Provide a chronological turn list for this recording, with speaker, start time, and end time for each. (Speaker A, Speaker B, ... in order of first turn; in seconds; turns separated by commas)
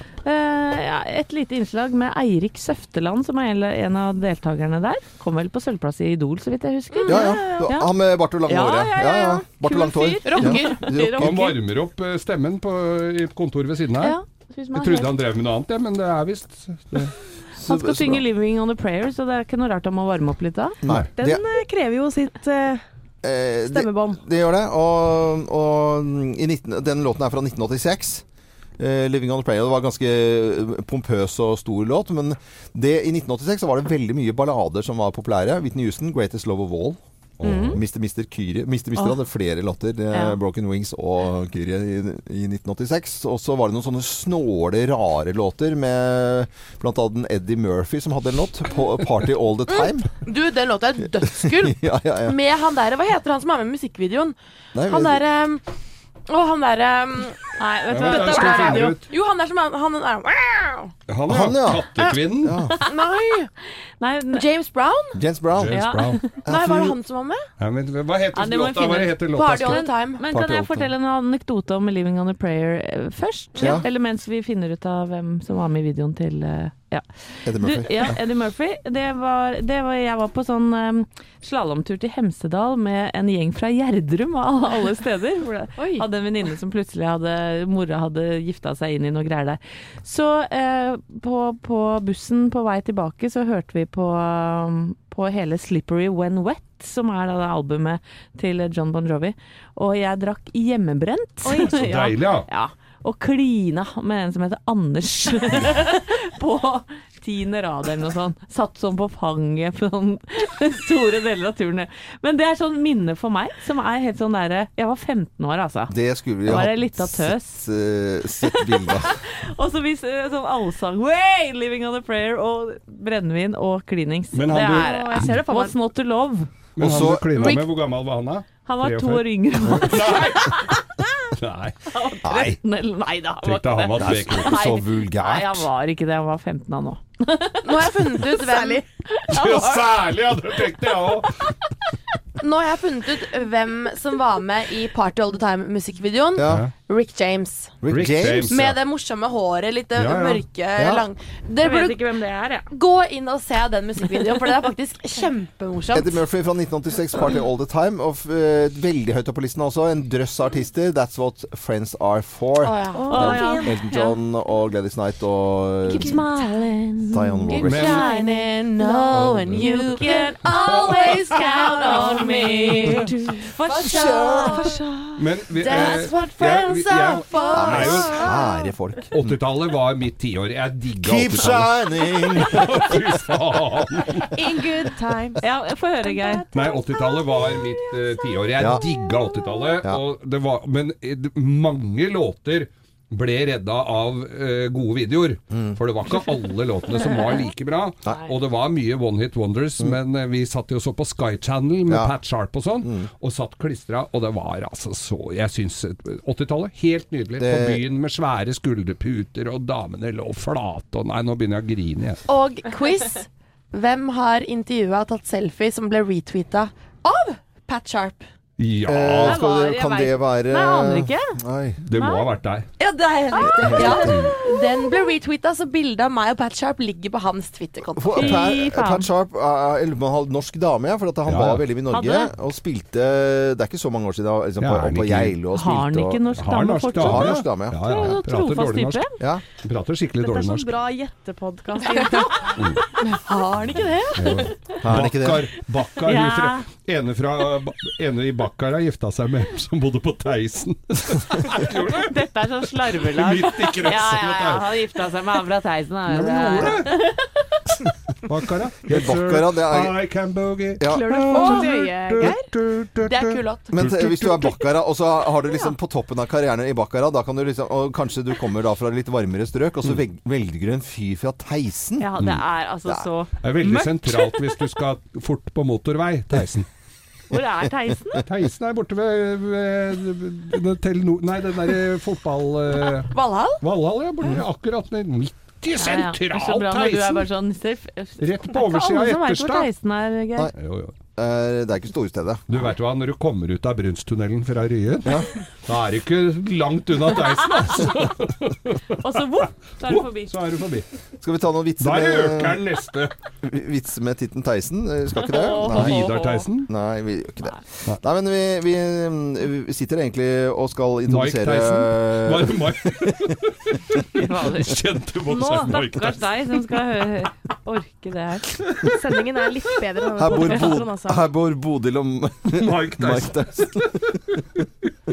Speaker A: 0.2-7.9, Speaker B: 6.9-7.3, Speaker C: 7.1-11.4, Speaker A: 8.5-11.5, Speaker B: 10.3-11.5, Speaker D: 11.2-14.2, Speaker A: 14.0-15.1, Speaker D: 14.7-17.1, Speaker C: 17.6-18.2, Speaker A: 17.7-20.8, Speaker C: 20.8-21.4, Speaker E: 21.2-22.8, Speaker C: 23.2-28.2, Speaker E: 23.7-24.2, Speaker C: 28.8-50.1, Speaker D: 37.4-37.8, Speaker A: 37.4-37.8, Speaker B: 49.7-55.6, Speaker C: 51.3-52.4, Speaker C: 54.8-55.2, Speaker B: 56.3-60.9, Speaker A: 57.6-59.0, Speaker D: 57.9-59.1, Speaker D: 61.1-62.6, Speaker C: 61.3-61.9, Speaker C: 62.4-62.8, Speaker B: 62.8-63.5, Speaker A: 64.0-64.4, Speaker B: 64.3-65.2, Speaker C: 65.2-65.8, Speaker D: 65.6-66.3, Speaker A: 65.7-66.3, Speaker B: 66.4-67.5, Speaker C: 66.4-67.0, Speaker D: 67.6-69.8, Speaker A: 68.3-115.9, Speaker B: 69.3-70.2, Speaker C: 70.3-70.9, Speaker C: 77.5-78.2, Speaker B: 85.8-86.0, Speaker E: 101.5-102.0, Speaker D: 101.7-102.5, Speaker C: 115.9-119.2, Speaker A: 116.5-117.6, Speaker A: 118.4-126.5, Speaker D: 124.3-125.4, Speaker E: 124.5-125.8, Speaker C: 126.8-127.5, Speaker D: 126.8-130.8, Speaker A: 128.7-130.8, Speaker D: 131.4-131.8, Speaker A: 131.9-137.7, Speaker C: 132.3-132.6, Speaker D: 133.4-134.6, Speaker C: 134.0-135.7, Speaker B: 137.6-140.0, Speaker E: 138.4-138.8, Speaker D: 139.3-141.6, Speaker B: 142.4-147.8, Speaker C: 146.4-146.7, Speaker D: 146.5-146.7, Speaker C: 147.8-148.6, Speaker D: 147.9-148.8, Speaker B: 148.5-152.1, Speaker D: 149.9-150.4, Speaker C: 150.8-151.1, Speaker A: 151.6-152.7, Speaker B: 152.7-156.2, Speaker C: 155.9-166.2, Speaker B: 162.6-164.1, Speaker A: 163.0-163.7, Speaker A: 165.8-173.0, Speaker C: 167.1-168.0, Speaker B: 167.5-174.7, Speaker D: 167.6-168.1, Speaker D: 169.2-169.7, Speaker D: 170.5-170.9, Speaker E: 172.7-175.8, Speaker A: 173.6-173.9, Speaker C: 173.8-174.6, Speaker D: 175.2-178.2, Speaker B: 175.6-178.4, Speaker C: 177.5-179.2, Speaker D: 179.1-184.3, Speaker C: 181.0-182.9, Speaker E: 184.3-185.4, Speaker A: 185.4-186.4, Speaker B: 186.2-186.9, Speaker D: 186.5-212.2, Speaker C: 188.6-188.8, Speaker C: 195.5-195.8, Speaker C: 201.9-202.1, Speaker C: 202.8-203.1, Speaker C: 207.4-207.8, Speaker B: 212.3-218.3, Speaker D: 218.6-219.4, Speaker C: 218.9-221.8, Speaker A: 219.2-221.4, Speaker D: 221.8-222.7, Speaker A: 221.9-222.3, Speaker B: 222.8-228.4, Speaker C: 223.4-224.3, Speaker C: 228.0-236.2, Speaker A: 228.2-229.1, Speaker D: 231.3-231.7, Speaker A: 231.9-232.3, Speaker D: 234.6-235.4, Speaker A: 235.5-239.1, Speaker D: 236.4-240.7, Speaker C: 237.0-237.8, Speaker E: 240.2-243.2, Speaker B: 241.9-242.3, Speaker B: 243.1-244.5, Speaker D: 244.2-254.7, Speaker C: 244.8-245.5, Speaker A: 246.1-246.6, Speaker A: 251.9-257.4, Speaker D: 256.1-257.0, Speaker D: 258.2-264.6, Speaker C: 258.9-260.0, Speaker C: 260.8-261.3, Speaker E: 260.9-262.5, Speaker B: 261.4-261.7, Speaker B: 263.1-263.7, Speaker C: 263.7-272.1, Speaker A: 272.0-274.6, Speaker D: 273.4-276.7, Speaker A: 277.3-278.2, Speaker D: 278.2-287.3, Speaker B: 283.1-283.6, Speaker A: 285.8-290.5, Speaker D: 288.2-289.7, Speaker D: 290.6-291.0, Speaker C: 291.2-292.4, Speaker D: 292.5-299.1, Speaker A: 299.0-300.3, Speaker D: 299.9-300.9, Speaker C: 301.2-302.7, Speaker D: 301.8-303.1, Speaker C: 303.4-306.0, Speaker A: 305.2-306.5, Speaker D: 305.6-306.7, Speaker C: 306.7-313.4, Speaker D: 311.1-316.8, Speaker A: 314.1-314.8, Speaker A: 315.3-318.6, Speaker E: 315.3-315.8, Speaker D: 318.6-318.9, Speaker E: 318.9-321.2, Speaker C: 320.2-324.2, Speaker D: 322.5-324.4